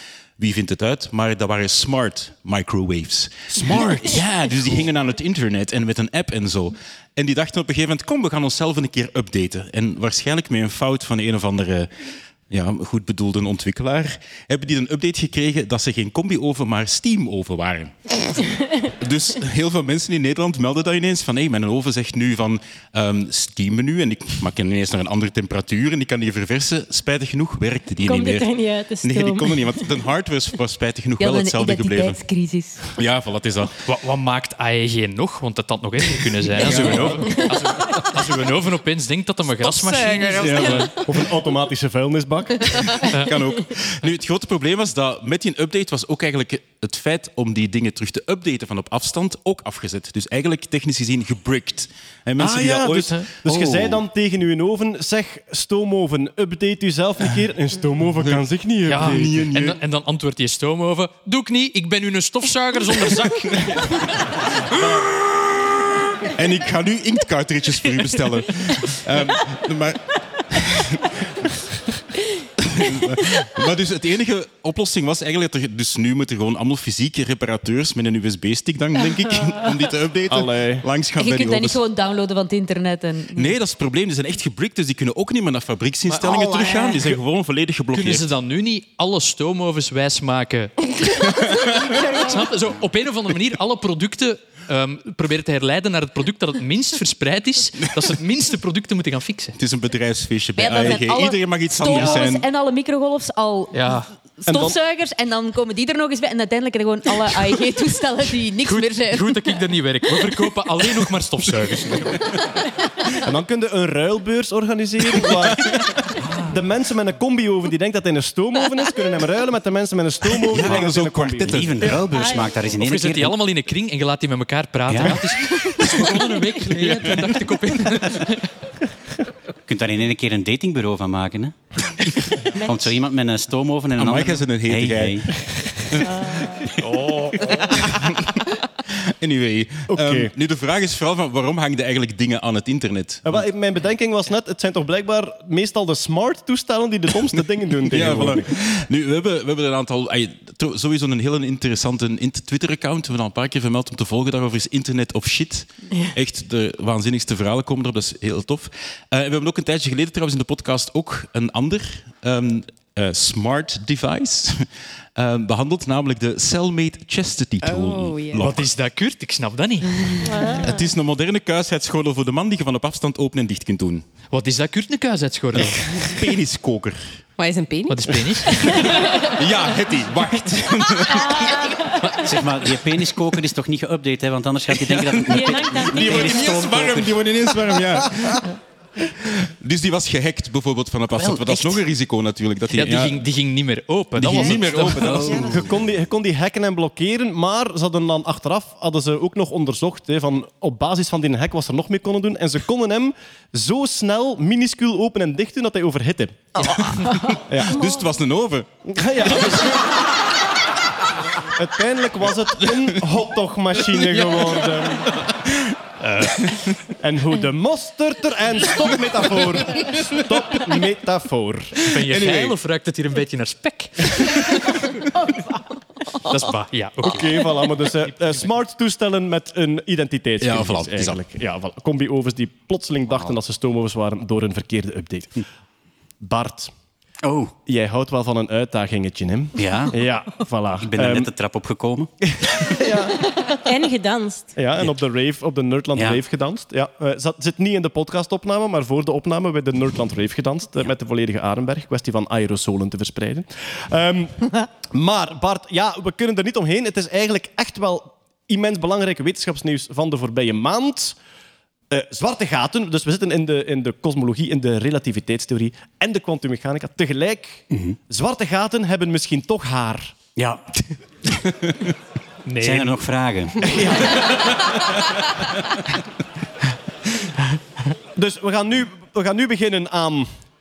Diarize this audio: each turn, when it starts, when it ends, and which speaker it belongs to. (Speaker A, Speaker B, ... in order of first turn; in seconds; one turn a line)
Speaker A: 0.4-11.9
Speaker A: 12.5-32.2
Speaker B: 28.0-29.6
Speaker C: 31.2-32.9
Speaker A: 32.9-33.7
Speaker D: 33.9-40.9
Speaker A: 36.6-37.4
Speaker A: 40.4-40.9
Speaker E: 40.8-42.9
Speaker D: 43.1-43.4
Speaker A: 43.2-54.0
Speaker E: 52.4-59.5
Speaker D: 58.9-64.1
Speaker A: 58.9-59.8
Speaker A: 66.3-71.6
Speaker A: 72.6-81.8
Speaker E: 80.3-80.9
Speaker C: 81.1-83.6
Speaker A: 83.3-88.3
Speaker C: 86.1-87.2
Speaker D: 87.9-91.2
Speaker A: 91.2-92.0
Speaker D: 92.2-99.6
Speaker A: 99.6-102.5
Speaker C: 100.6-109.6
Speaker D: 103.7-104.1
Speaker E: 104.5-104.7
Speaker D: 108.6-112.2
Speaker A: 112.0-112.4
Speaker E: 113.2-115.9
Speaker E: 116.4-121.9
Speaker A: 120.5-122.1
Speaker F: 120.6-120.9
Speaker F: 121.4-123.3
Speaker B: 122.0-122.5
Speaker D: 122.8-128.5
Speaker F: 124.9-125.2
Speaker A: 126.7-128.2
Speaker F: 129.7-131.6
Speaker F: 132.6-135.3
Speaker A: 134.0-138.3
Speaker A: 139.2-143.4
Speaker E: 139.9-140.3
Speaker E: 143.2-148.5
Speaker A: 147.8-168.7
Speaker G: 167.6-168.5
Speaker D: 168.4-170.3
Speaker B: 170.3-170.6
Speaker A: 170.6-174.1
Speaker D: 174.3-175.8
Speaker A: 175.5-177.2
Speaker G: 177.4-179.0
Speaker D: 177.9-178.9
Speaker A: 179.3-181.6
Speaker B: 181.1-181.8
Speaker D: 182.0-182.3
Speaker F: 182.2-187.2
Speaker A: 184.8-188.5
Speaker B: 185.3-186.5
Speaker A: 189.6-193.3
Speaker F: 191.2-191.7
Speaker D: 192.7-195.4
Speaker A: 194.2-195.8
Speaker E: 194.2-206.8
Speaker A: 206.6-208.7
Speaker E: 207.5-207.8
Speaker E: 208.8-209.9
Speaker E: 211.6-215.1
Speaker A: 212.6-213.0
Speaker A: 213.9-215.8
Speaker D: 216.0-216.7
Speaker A: 216.4-216.8
Speaker E: 217.0-221.8
Speaker D: 221.9-224.8
Speaker A: 222.0-222.6
Speaker D: 226.3-227.5
Speaker E: 227.0-235.4
Speaker A: 230.4-231.2
Speaker E: 236.2-236.7
Speaker F: 237.2-237.5
Speaker E: 237.7-241.3
Speaker F: 239.6-240.0
Speaker F: 240.8-242.1
Speaker E: 242.3-243.2
Speaker B: 243.7-244.5
Speaker E: 244.6-261.2
Speaker E: 261.9-270.2
Speaker F: 267.7-268.0
Speaker F: 270.4-270.6
Speaker D: 272.5-272.9
Speaker F: 272.6-274.2
Speaker E: 273.6-274.6
Speaker E: 278.1-280.3